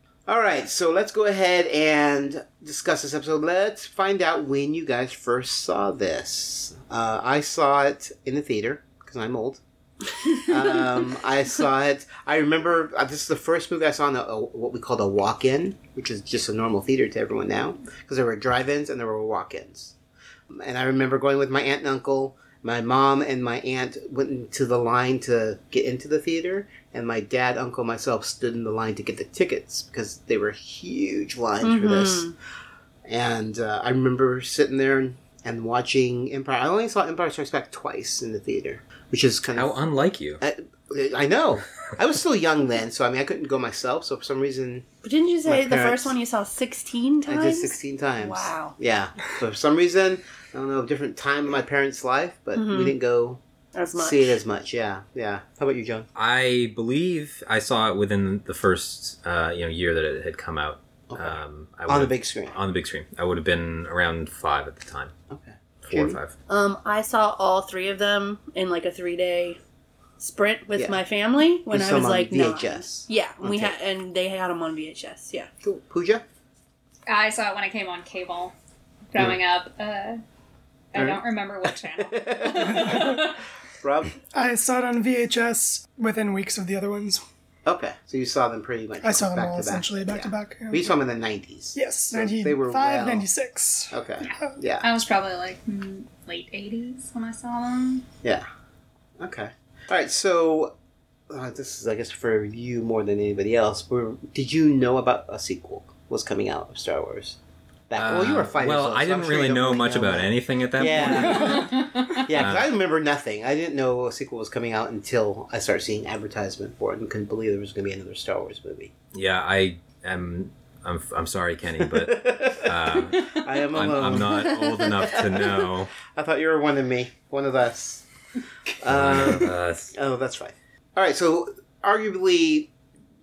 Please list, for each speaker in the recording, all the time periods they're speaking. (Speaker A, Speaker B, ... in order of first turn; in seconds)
Speaker A: 0.3-9.6, 10.4-19.9, 20.5-32.3, 33.0-39.8, 40.4-44.9, 45.4-46.1, 47.3-53.4, 54.0-56.1, 61.1-62.5, 65.3-66.2, 71.7-73.8, 75.6-76.2, 80.9-81.2, 82.0-83.2, 83.8-84.1, 87.6-93.2, 93.9-94.9, 99.2-100.7, 101.3-107.4, 107.9-118.9, 121.8-125.5, 126.1-128.0, 128.8-132.7
Speaker B: 10.2-10.8, 31.6-32.3, 45.0-48.7, 52.5-53.0, 53.7-54.4, 66.5-69.6, 70.2-75.5
Speaker C: 39.5-40.4, 56.1-65.1, 65.8-66.3, 108.0-111.7, 112.3-112.7, 119.1-125.9, 128.9-129.9
Speaker D: 77.1-78.5, 79.1-80.2, 80.9-83.3, 94.2-98.0, 111.3-112.0
Speaker E: 82.7-83.3, 84.3-87.2, 89.0-91.0, 91.7-93.9